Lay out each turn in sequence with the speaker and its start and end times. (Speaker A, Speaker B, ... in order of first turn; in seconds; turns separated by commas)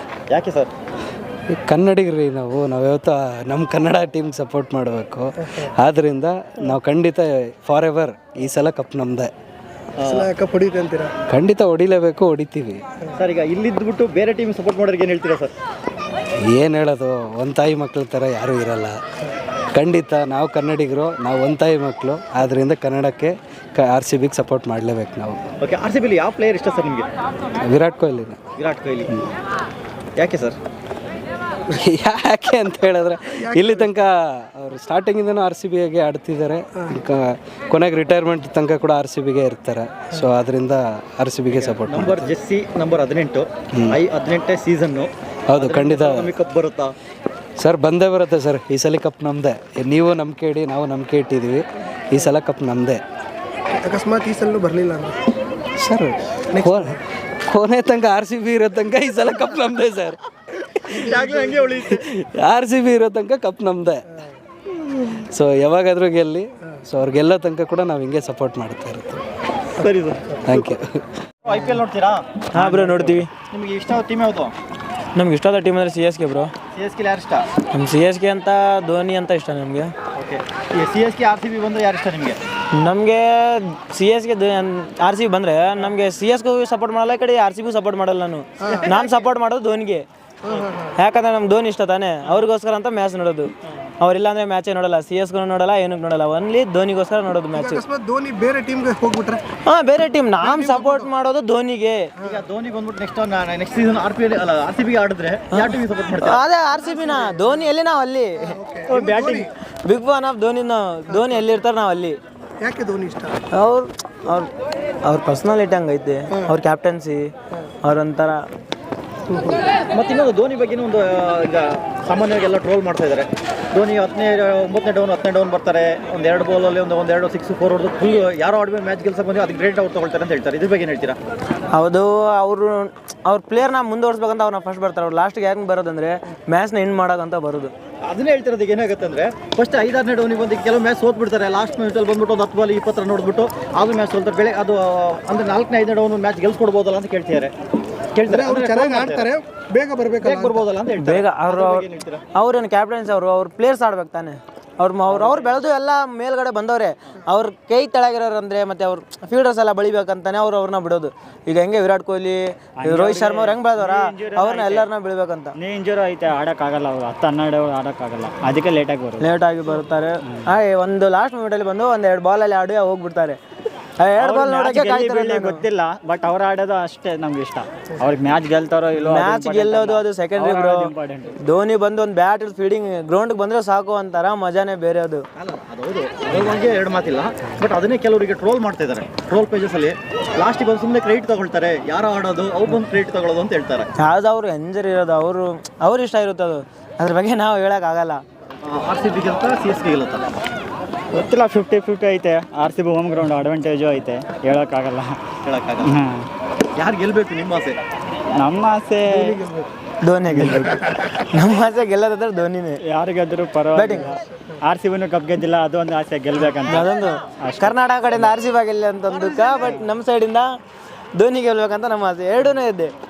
Speaker A: 0.3-0.7, Speaker B: 1.5-9.3, Speaker A: 10.0-10.3, Speaker C: 10.0-11.2, Speaker B: 11.3-12.8, Speaker A: 13.2-15.5, Speaker B: 16.4-18.9, Speaker B: 19.7-25.4, Speaker A: 25.6-27.1, Speaker B: 27.6-28.4, Speaker A: 28.6-29.1, Speaker A: 30.1-30.6, Speaker B: 31.7-42.3, Speaker C: 33.3-33.9, Speaker A: 41.5-46.9, Speaker B: 45.5-46.3, Speaker B: 47.6-53.0, Speaker C: 53.8-55.2, Speaker B: 55.8-60.2, Speaker C: 56.5-57.0, Speaker C: 60.9-61.6, Speaker A: 61.0-62.0, Speaker B: 61.9-64.0, Speaker B: 65.0-69.2, Speaker A: 69.8-70.7, Speaker B: 70.4-71.0, Speaker A: 71.4-74.5, Speaker D: 72.5-73.3, Speaker D: 75.1-76.5, Speaker A: 76.7-77.5, Speaker D: 77.6-79.9, Speaker A: 80.1-82.4, Speaker D: 82.8-90.0, Speaker C: 88.6-88.9, Speaker C: 90.4-91.0, Speaker D: 91.0-97.8, Speaker C: 97.5-99.5, Speaker D: 99.7-102.1, Speaker C: 100.4-101.1, Speaker A: 102.2-106.4, Speaker D: 105.5-108.5, Speaker C: 106.9-107.5, Speaker C: 108.5-109.5, Speaker A: 109.0-109.4, Speaker D: 109.4-112.2, Speaker C: 112.6-113.4, Speaker D: 113.5-114.5, Speaker D: 115.0-117.3, Speaker D: 117.8-118.4, Speaker C: 119.3-119.6, Speaker A: 119.9-131.2, Speaker D: 131.7-137.7, Speaker A: 138.0-147.5, Speaker A: 148.1-149.3, Speaker C: 148.3-150.6, Speaker A: 150.2-152.2, Speaker D: 151.0-165.5, Speaker E: 162.8-164.9, Speaker E: 165.5-169.3, Speaker D: 169.2-173.4, Speaker D: 174.0-175.6, Speaker E: 174.2-181.4, Speaker D: 178.9-180.9, Speaker D: 181.4-185.2, Speaker A: 185.4-193.9, Speaker D: 194.0-198.2, Speaker A: 198.6-200.3, Speaker E: 201.1-205.2, Speaker A: 205.4-206.0, Speaker E: 205.8-206.3, Speaker A: 206.7-207.8, Speaker E: 208.3-209.4, Speaker C: 209.1-209.7, Speaker D: 210.0-212.8, Speaker E: 210.3-210.8, Speaker E: 212.8-218.3, Speaker D: 213.7-214.1, Speaker D: 216.7-220.5, Speaker E: 219.4-219.8, Speaker D: 221.1-222.9